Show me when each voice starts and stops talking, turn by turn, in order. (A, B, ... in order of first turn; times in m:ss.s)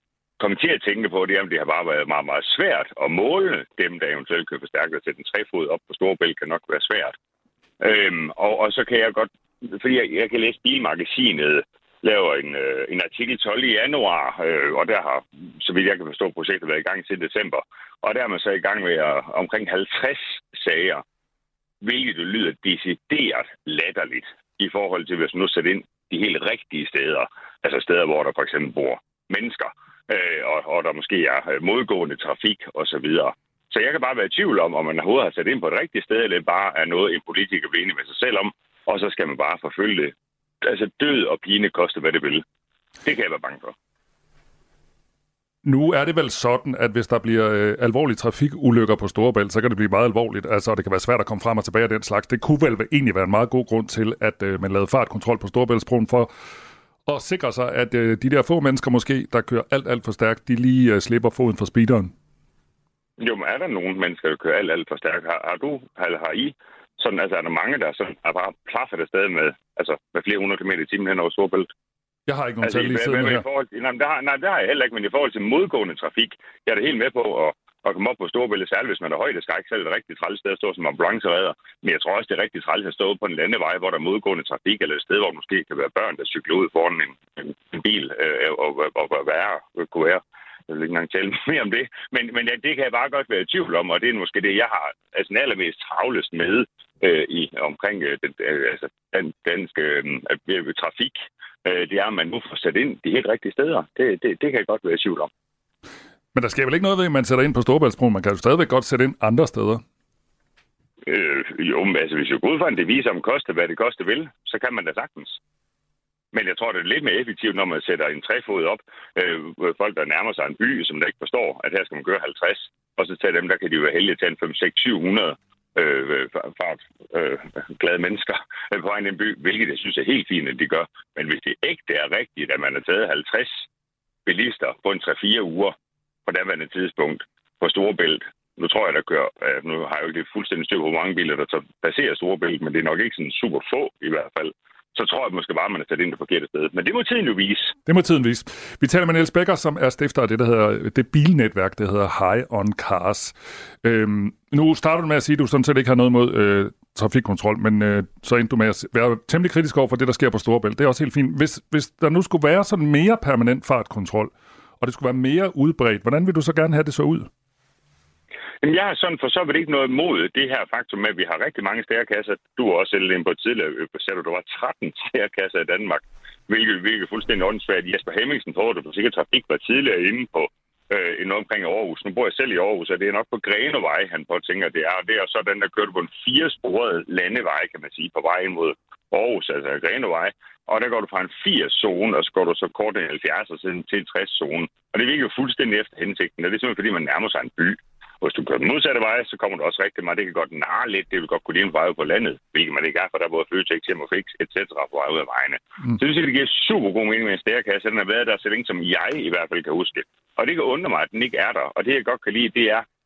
0:00.4-0:07.1 A
0:07.8-0:21.0 A
0:21.8-0:42.4 A
0:43.0-0:43.7 A
0:45.6-0:56.3 B
0:57.1-1:02.1 B
1:03.2-1:11.7 A
1:12.3-1:13.4 B
1:12.6-1:45.3 A
1:46.3-1:49.8 B
1:51.1-1:55.4 A
1:56.3-2:13.6 A
2:14.3-2:15.7 A
2:16.3-2:27.8 A
2:27.9-2:47.3 B
2:48.6-3:32.8 A